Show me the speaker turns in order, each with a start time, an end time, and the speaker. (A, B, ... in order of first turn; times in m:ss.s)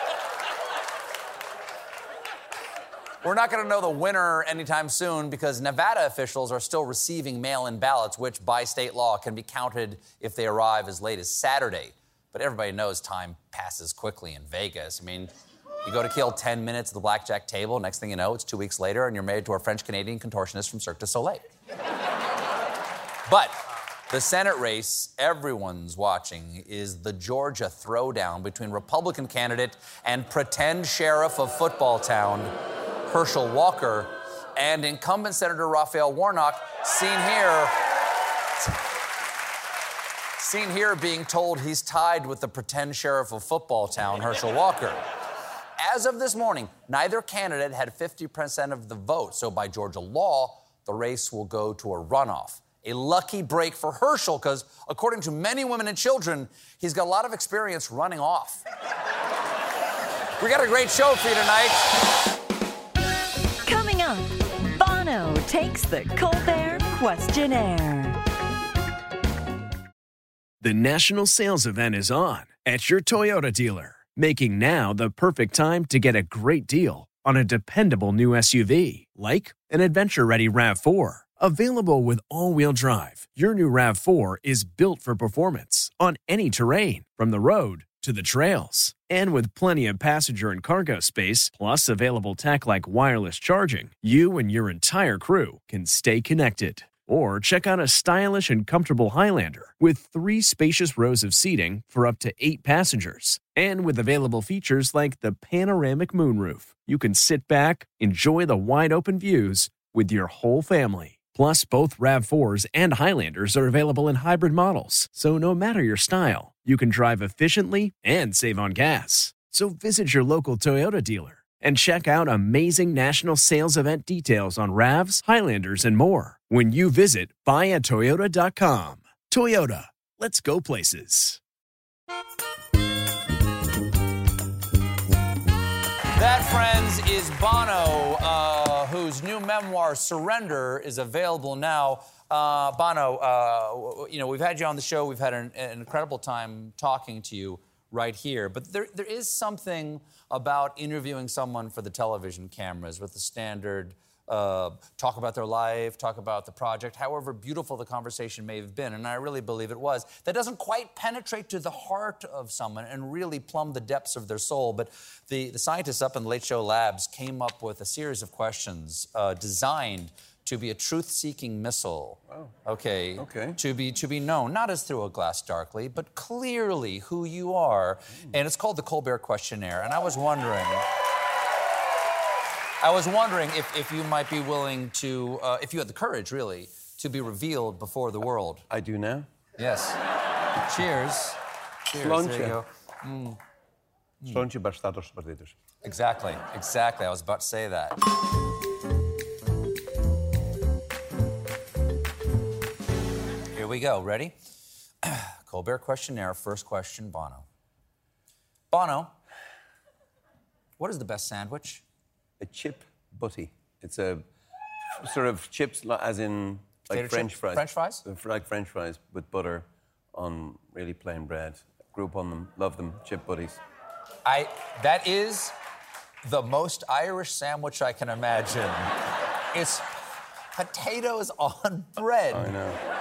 0:03.2-0:15.3 A
0:15.8-0:21.4 A
0:23.2-0:32.5 A
0:33.1-0:37.8 A
0:40.4-0:45.0 A
0:45.8-0:58.6 A
1:00.4-1:01.9 A
1:03.6-1:08.2 B
1:10.6-2:11.4 C
2:16.1-3:00.9 A
2:53.2-2:53.6 D
3:02.8-3:08.6 A
3:08.7-3:09.3 D
3:09.6-3:10.0 A
3:10.6-3:11.4 A
3:11.9-3:13.4 A
3:11.9-3:12.6 D
3:14.2-3:15.5 D
3:15.8-3:18.0 A
3:23.5-3:24.4 A
3:25.0-3:27.4 A
3:28.7-3:29.1 A
3:30.8-3:31.8 A
3:32.4-3:34.2 D
3:35.0-3:43.6 D
3:36.9-3:38.0 A
3:44.2-3:45.5 A
3:46.2-3:48.9 A
3:49.5-3:49.9 A
3:50.5-3:52.5 A
3:52.3-3:52.8 D